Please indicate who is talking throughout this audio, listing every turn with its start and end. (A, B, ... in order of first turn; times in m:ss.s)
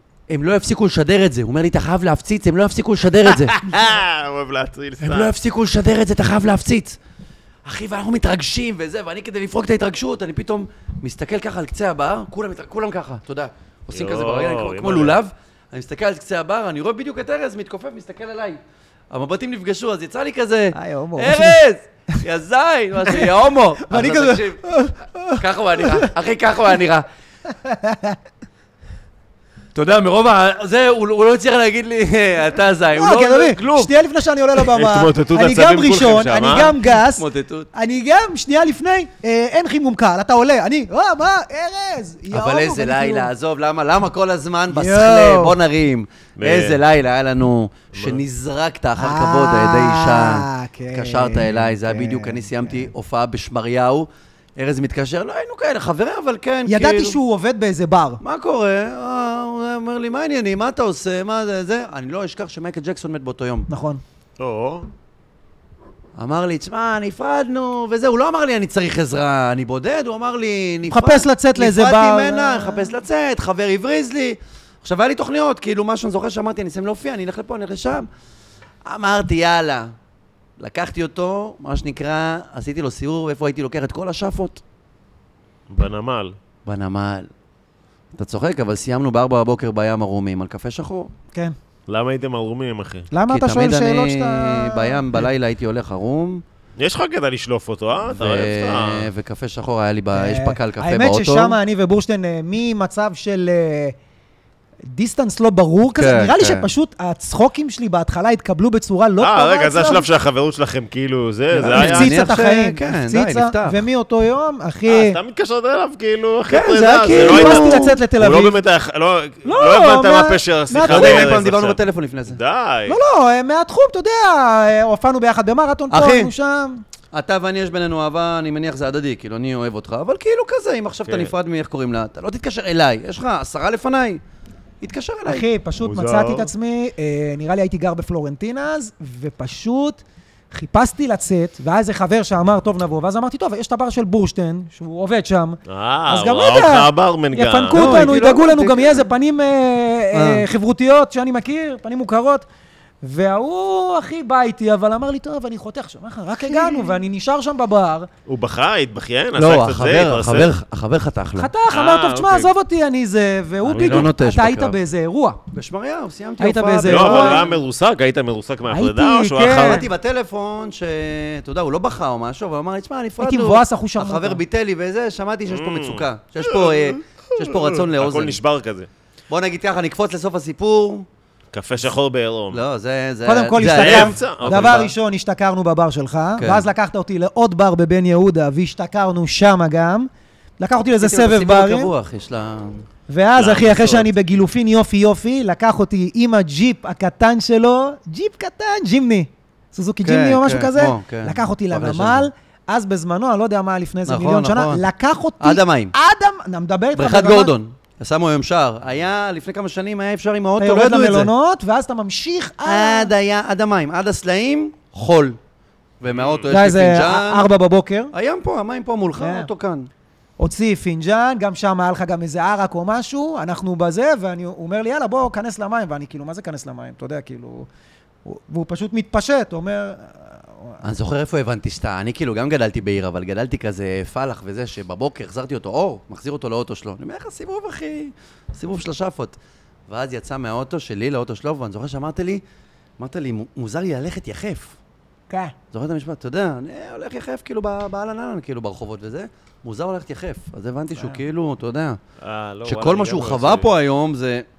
0:00.3-0:03.6 A
0:03.2-0:05.3 B
0:05.0-0:07.0 A
0:07.6-0:18.6 A
0:13.9-0:15.2 B
0:19.1-0:27.1 A
0:20.7-0:21.6 C
0:23.9-0:26.1 C
0:27.5-0:28.2 C
0:29.8-0:33.9 A
0:33.0-0:43.3 C
0:34.6-0:36.8 B
0:37.1-0:37.7 A
0:42.3-0:57.2 A
0:44.7-0:45.6 C
0:46.4-0:46.8 B
0:47.9-0:48.2 B
0:49.0-0:52.9 C
0:56.7-0:58.2 C
0:58.2-1:03.7 A
1:03.7-1:04.0 C
1:04.4-1:04.9 B
1:06.2-1:18.1 A
1:10.9-1:12.9 C
1:18.8-1:19.9 A
1:20.6-1:24.6 A
1:25.7-1:26.4 B
1:26.6-1:27.3 A
1:28.2-1:31.1 A
1:31.9-1:33.1 B
1:33.1-1:35.3 C
1:33.3-1:36.4 A
1:36.8-1:39.1 B
1:38.1-1:41.6 A
1:40.1-1:44.0 C
1:44.9-1:50.1 C
1:46.0-1:46.7 A
1:49.2-1:52.1 B
1:51.5-1:53.8 A
1:51.6-1:55.2 C
1:54.9-2:03.0 B
1:56.5-1:58.0 A
1:56.6-1:58.6 C
1:59.4-2:01.4 C
2:00.8-2:02.4 A
2:02.9-2:06.8 C
2:05.9-2:06.3 A
2:07.1-2:14.2 A
2:11.1-2:11.3 B
2:14.8-2:15.4 A
2:15.3-2:32.5 C
2:15.8-2:16.5 B
2:25.7-2:28.1 B
2:27.7-2:29.1 A
2:30.1-2:30.5 A
2:33.0-2:38.1 C
2:36.4-2:37.0 A
2:38.3-2:40.5 B
2:39.4-2:41.5 A
2:41.4-2:45.4 C
2:41.7-2:42.5 B
2:43.7-2:44.1 B
2:43.7-2:44.8 A
2:45.5-2:47.5 A
2:46.4-2:47.5 C
2:46.9-2:49.9 B
2:48.7-2:49.9 C
2:49.5-2:58.4 A
2:53.2-2:54.4 C
2:55.5-2:58.9 B
2:59.3-3:01.1 A
3:01.5-3:02.6 B
3:02.5-3:04.9 A
3:03.3-3:11.9 C
3:03.6-3:04.9 B
3:06.4-3:06.7 A
3:11.0-3:12.8 A
3:13.1-3:27.5 C
3:13.4-3:14.1 B
3:20.0-3:22.3 A
3:24.1-3:24.8 A
3:25.4-3:25.9 A
3:27.0-3:31.3 A
3:30.6-3:33.1 C
3:32.6-3:35.4 A
3:36.0-3:37.5 A
3:36.1-3:36.5 B
3:36.5-3:38.1 C
3:38.1-3:39.9 A
3:39.2-3:39.5 C
3:40.4-3:47.7 C
3:48.2-3:50.8 C
3:50.8-3:59.4 A
3:59.9-4:02.4 A
4:03.0-4:04.8 A
4:05.3-4:05.6 C
4:05.7-4:12.0 A
4:12.2-4:13.7 B
4:12.6-4:14.5 A